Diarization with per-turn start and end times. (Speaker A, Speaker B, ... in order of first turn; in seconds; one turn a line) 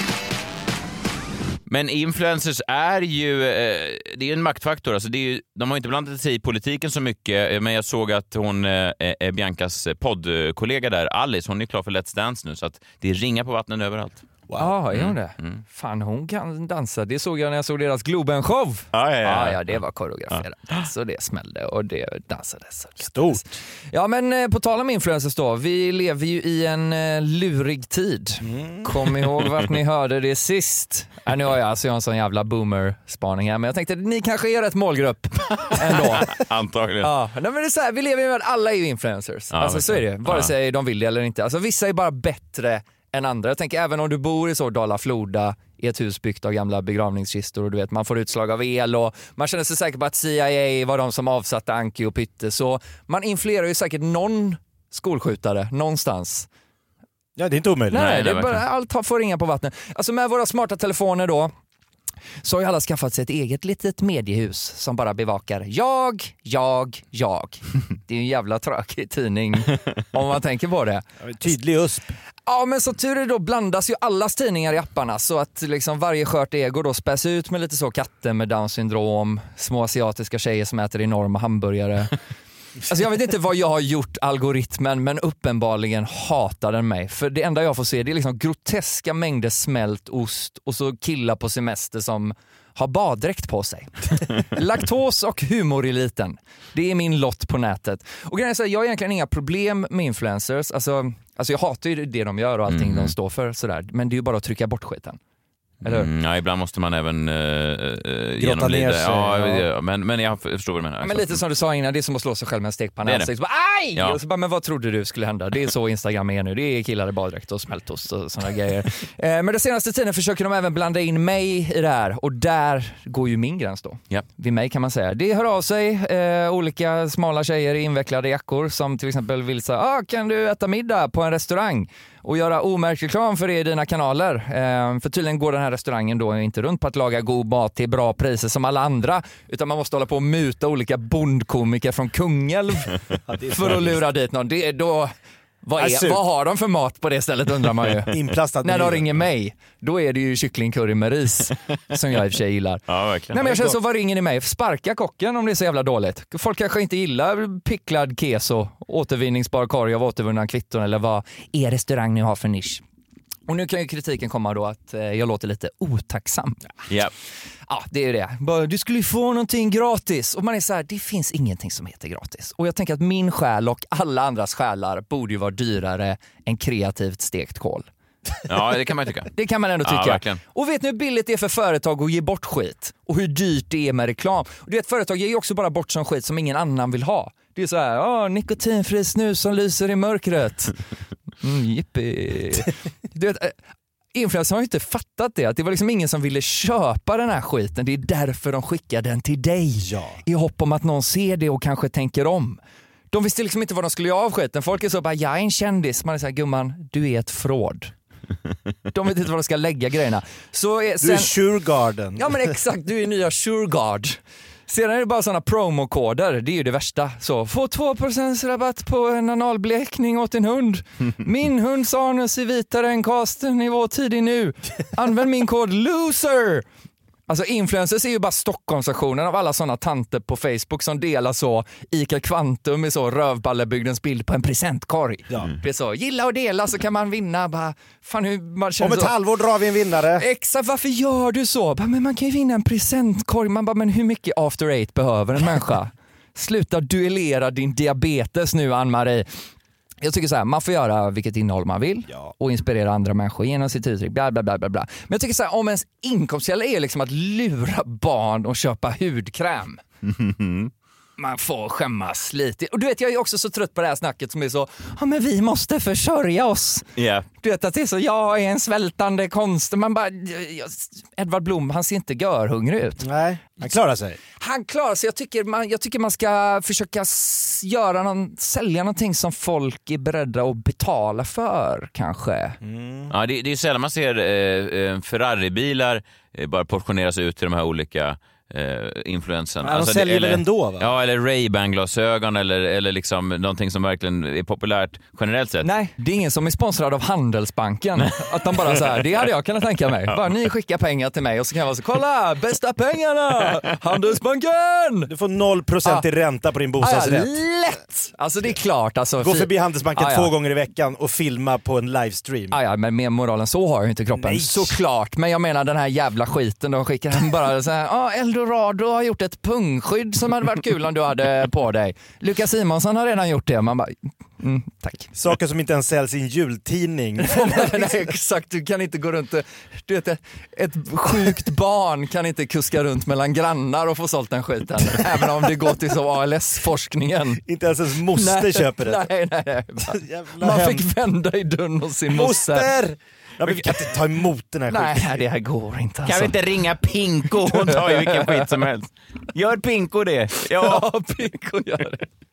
Speaker A: 1.7-14.2
Speaker B: 14.5-14.8
Speaker C: 14.6-36.3
Speaker A: 14.9-15.6
Speaker A: 18.9-19.7
Speaker B: 23.0-23.4
Speaker B: 28.4-29.0
Speaker A: 35.9-37.1
Speaker C: 37.0-56.5
Speaker A: 39.5-40.5
Speaker B: 57.4-58.2
Speaker C: 57.9-61.5
Speaker A: 58.0-58.6
Speaker C: 62.4-71.5
Speaker B: 71.2-72.1
Speaker C: 72.5-82.1
Speaker C: 82.9-105.2
Speaker A: 102.7-103.1
Speaker A: 105.8-111.4
Speaker C: 105.8-106.1
Speaker B: 108.4-109.6
Speaker C: 111.0-142.9
Speaker B: 143.3-144.0
Speaker C: 143.5-145.1
Speaker C: 145.6-162.8
Speaker B: 145.8-146.2
Speaker B: 148.1-149.2
Speaker A: 152.9-153.7
Speaker C: 163.5-166.6
Speaker C: 167.7-177.9
Speaker A: 178.5-180.4
Speaker C: 179.3-190.7
Speaker C: 191.4-193.6
Speaker C: 194.1-202.6
Speaker B: 199.8-200.2
Speaker C: 203.1-207.9
Speaker C: 208.9-211.3
Speaker B: 211.0-212.5
Speaker C: 212.2-226.7
Speaker C: 227.3-239.1
Speaker B: 238.8-240.2
Speaker C: 240.2-249.3
Speaker C: 250.0-259.8
Speaker A: 260.0-260.7
Speaker C: 261.2-266.9
Speaker A: 267.0-267.3
Speaker C: 267.4-273.1
Speaker B: 273.0-274.2
Speaker C: 274.4-282.6
Speaker B: 282.6-283.1
Speaker A: 283.1-295.7
Speaker B: 289.6-290.9
Speaker C: 295.6-305.1
Speaker B: 305.1-307.3
Speaker C: 306.8-310.3
Speaker B: 309.2-312.6
Speaker C: 312.5-325.1
Speaker B: 314.1-314.8
Speaker B: 325.1-328.1
Speaker C: 327.2-337.4
Speaker B: 337.5-339.1
Speaker C: 338.2-342.7
Speaker B: 339.9-340.9
Speaker B: 342.1-345.2
Speaker C: 343.5-343.8
Speaker C: 344.7-346.4
Speaker A: 346.1-350.9
Speaker C: 347.4-348.5
Speaker C: 350.6-352.1